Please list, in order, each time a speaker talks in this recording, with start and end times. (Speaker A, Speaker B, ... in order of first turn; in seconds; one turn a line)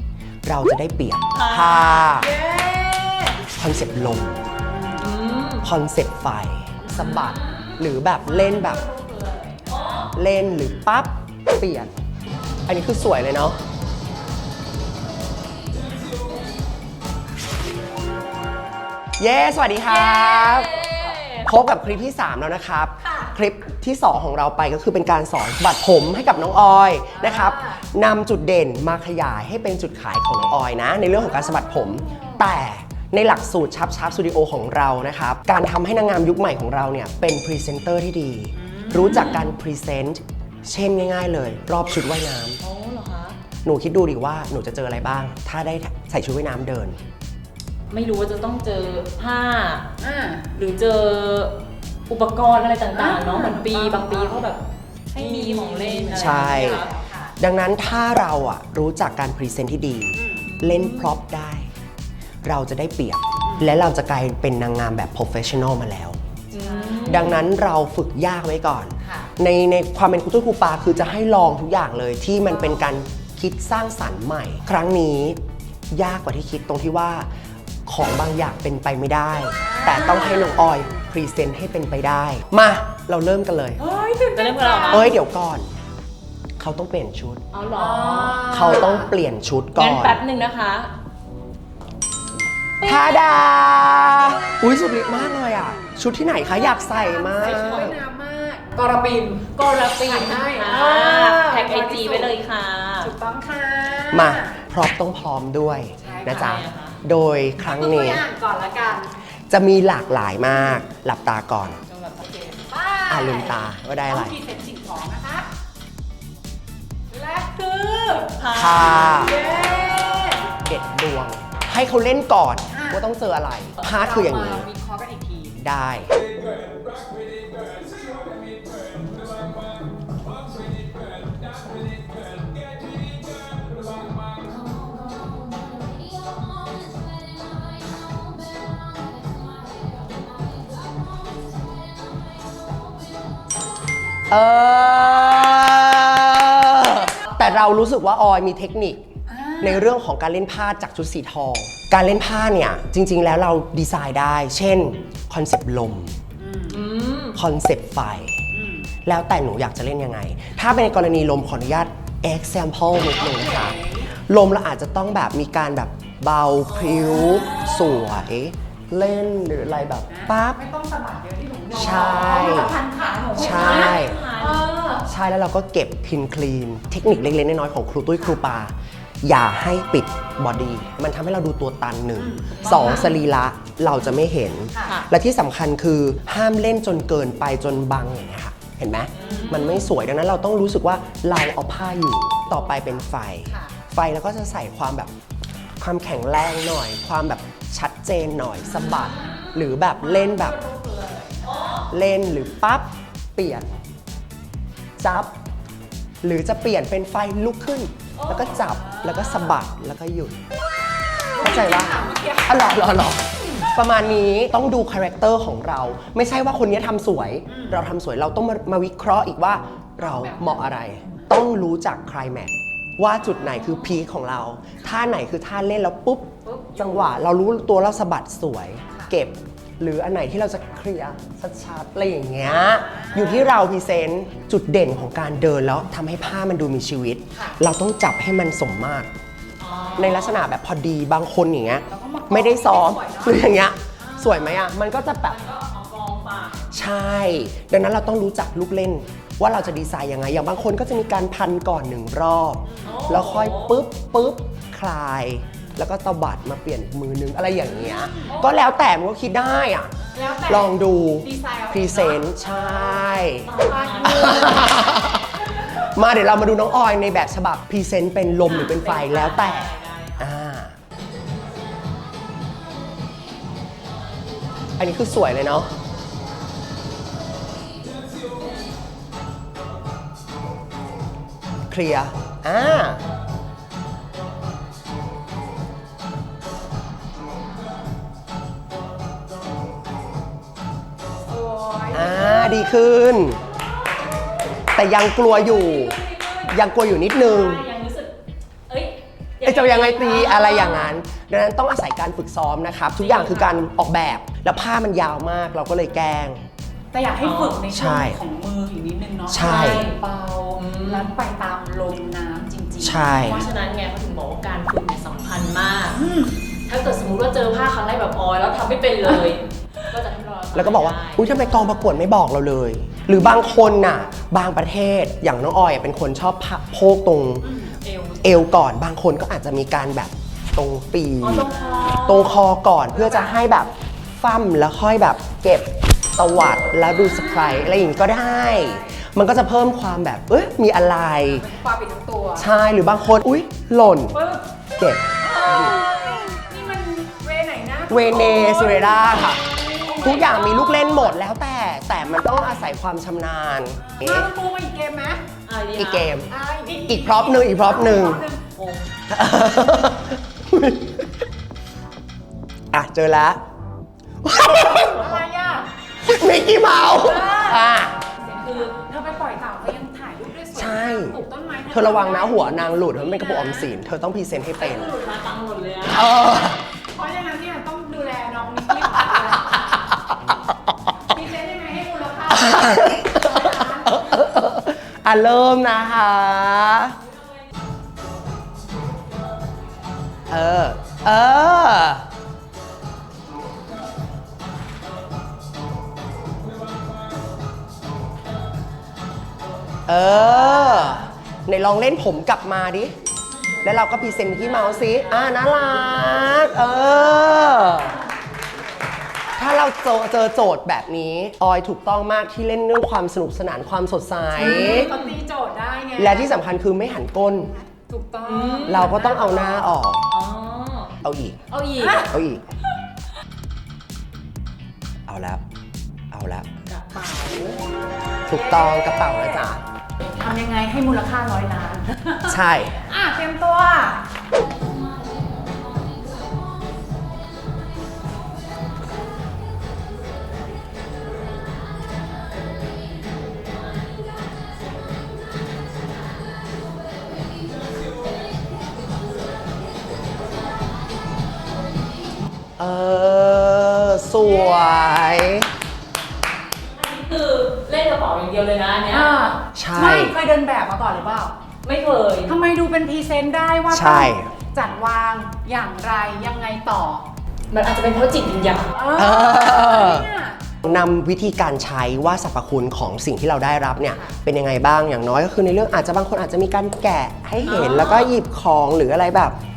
Speaker A: 0.5-2.3
Speaker B: 1.3-2.1
Speaker C: 2.2-3.4
Speaker A: 3.5-4.4
Speaker C: 4.6-5.1
Speaker B: 5.0-5.7
Speaker A: 5.6-8.8
Speaker C: 6.8-7.1
Speaker B: 6.9-7.8
Speaker C: 8.2-10.1
Speaker B: 9.6-10.1
Speaker A: 10.1-12.0
Speaker A: 12.7-13.6
Speaker A: 19.2-20.8
Speaker B: 19.9-21.5
Speaker A: 21.4-42.6
Speaker C: 23.1-23.3
Speaker C: 27.2-27.8
Speaker C: 31.1-32.5
Speaker C: 38.5-39.4
Speaker B: 39.1-39.5
Speaker B: 42.6-43.4
Speaker A: 43.6-47.0
Speaker B: 47.9-49.9
Speaker C: 50.0-50.5
Speaker B: 50.5-51.5
Speaker B: 52.1-56.9
Speaker C: 52.9-54.5
Speaker C: 55.2-57.4
Speaker A: 56.1-61.7
Speaker C: 60.1-60.5
Speaker B: 60.5-61.2
Speaker A: 62.4-66.2
Speaker C: 63.5-63.7
Speaker B: 66.5-67.4
Speaker C: 66.6-67.4
Speaker A: 67.1-75.4
Speaker C: 69.0-69.3
Speaker A: 75.9-77.3
Speaker A: 77.9-83.8
Speaker C: 79.6-80.9
Speaker B: 79.9-80.4
Speaker C: 83.8-85.1
Speaker B: 84.3-85.1
Speaker A: 84.9-85.7
Speaker A: 86.6-87.4
Speaker B: 87.5-88.9
Speaker C: 87.7-89.1
Speaker A: 88.5-90.2
Speaker B: 89.8-90.9
Speaker A: 92.8-98.0
Speaker C: 92.8-93.2
Speaker C: 96.6-102.4
Speaker B: 97.4-98.0
Speaker B: 99.6-103.1
Speaker C: 103.0-104.6
Speaker A: 104.1-108.2
Speaker C: 106.0-106.6
Speaker B: 106.2-107.0
Speaker C: 107.6-109.1
Speaker A: 109.5-111.8
Speaker B: 111.9-112.6
Speaker C: 112.7-115.5
Speaker A: 113.1-114.4
Speaker C: 117.1-118.4
Speaker B: 118.4-119.3
Speaker A: 118.5-119.4
Speaker C: 119.1-120.5
Speaker A: 120.6-124.7
Speaker C: 122.7-123.1
Speaker C: 123.8-125.6
Speaker A: 125.6-126.2
Speaker A: 144.3-149.0
Speaker C: 149.3-149.9
Speaker A: 149.6-156.2
Speaker C: 156.3-156.8
Speaker B: 156.7-157.4
Speaker A: 157.3-158.4
Speaker C: 158.5-158.9
Speaker A: 159.0-170.6
Speaker C: 163.1-164.1
Speaker B: 166.7-168.1
Speaker C: 170.1-175.1
Speaker A: 171.7-172.8
Speaker B: 173.3-174.7
Speaker A: 173.3-174.2
Speaker A: 175.0-195.1
Speaker C: 182.2-183.1
Speaker B: 182.6-183.1
Speaker C: 184.7-185.0
Speaker B: 184.8-185.1
Speaker B: 189.1-189.9
Speaker C: 189.2-189.8
Speaker C: 192.5-193.8
Speaker A: 195.8-200.6
Speaker B: 198.7-199.7
Speaker C: 198.8-199.3
Speaker C: 200.0-201.9
Speaker B: 201.4-201.9
Speaker A: 201.9-203.7
Speaker A: 205.0-205.3
Speaker A: 206.2-210.4
Speaker B: 208.2-208.5
Speaker C: 208.4-209.6
Speaker C: 211.3-212.8
Speaker A: 211.4-239.1
Speaker C: 217.5-217.8
Speaker C: 220.0-221.2
Speaker C: 226.4-227.1
Speaker C: 228.9-229.2
Speaker C: 232.4-233.6
Speaker C: 237.3-237.6
Speaker B: 239.6-240.5
Speaker A: 240.0-245.4
Speaker C: 241.9-244.5
Speaker B: 245.3-246.7
Speaker A: 246.7-263.5
Speaker C: 252.7-253.1
Speaker B: 252.8-253.7
Speaker C: 257.9-258.4
Speaker C: 260.1-264.9
Speaker B: 263.4-265.1
Speaker A: 264.0-270.8
Speaker B: 268.4-270.3
Speaker A: 274.8-275.7
Speaker A: 281.7-283.0
Speaker C: 291.3-292.8
Speaker A: 291.9-293.4
Speaker A: 294.7-297.6
Speaker B: 295.2-298.1
Speaker B: 298.7-300.9
Speaker A: 299.4-306.5
Speaker B: 303.0-303.6
Speaker C: 306.9-313.4
Speaker B: 307.2-307.6
Speaker A: 307.7-308.2
Speaker A: 309.3-309.9
Speaker B: 309.4-310.0
Speaker B: 310.5-311.1
Speaker A: 312.8-313.5
Speaker B: 313.2-316.0
Speaker C: 315.9-316.4
Speaker B: 316.7-321.4
Speaker A: 320.5-327.6
Speaker C: 323.1-324.2
Speaker C: 327.4-327.8
Speaker B: 327.8-328.4
Speaker A: 328.2-341.5
Speaker B: 331.2-332.4
Speaker C: 331.4-332.0
Speaker C: 332.9-333.4
Speaker B: 336.7-337.7
Speaker C: 338.2-338.9
Speaker C: 341.2-342.5
Speaker A: 342.4-344.2
Speaker C: 344.1-344.5
Speaker A: 344.8-345.7
Speaker C: 345.2-350.9
Speaker A: 347.9-349.5
Speaker A: 350.0-354.3
Speaker C: 353.8-355.2
Speaker B: 355.4-356.1
Speaker A: 355.8-356.3
Speaker C: 356.3-358.5
Speaker A: 356.9-358.3
Speaker B: 358.6-358.9
Speaker A: 359.1-361.0
Speaker A: 362.7-363.4
Speaker A: 364.2-365.2
Speaker C: 364.8-365.7
Speaker A: 366.0-368.0
Speaker C: 366.7-373.7
Speaker B: 368.4-368.7
Speaker A: 370.5-371.1
Speaker A: 371.7-375.0
Speaker B: 374.6-376.1
Speaker A: 375.9-376.6
Speaker C: 376.0-379.7
Speaker A: 378.9-380.3
Speaker C: 381.1-384.2
Speaker A: 382.3-387.0
Speaker A: 390.3-392.0
Speaker A: 399.9-402.9
Speaker A: 403.6-408.0
Speaker B: 404.4-405.6
Speaker B: 407.7-408.0
Speaker A: 409.4-414.9
Speaker C: 414.4-416.3
Speaker B: 414.4-415.2
Speaker A: 416.0-417.5
Speaker C: 417.7-419.7
Speaker B: 418.2-418.9
Speaker A: 418.6-420.1
Speaker B: 420.1-422.1
Speaker A: 421.0-421.4
Speaker C: 421.8-422.1
Speaker A: 422.0-422.4
Speaker A: 425.1-425.4
Speaker A: 426.1-426.5
Speaker B: 426.6-427.6
Speaker A: 428.3-429.6
Speaker C: 428.3-429.5
Speaker C: 430.0-434.1
Speaker A: 432.2-432.8
Speaker A: 452.6-455.5
Speaker B: 456.7-459.1
Speaker C: 458.9-461.4
Speaker A: 459.5-460.1
Speaker B: 461.6-462.3
Speaker C: 462.2-467.1
Speaker A: 463.7-464.3
Speaker B: 467.5-468.8
Speaker C: 468.7-470.4
Speaker A: 468.9-470.1
Speaker A: 470.6-479.4
Speaker C: 473.9-474.1
Speaker C: 477.4-478.0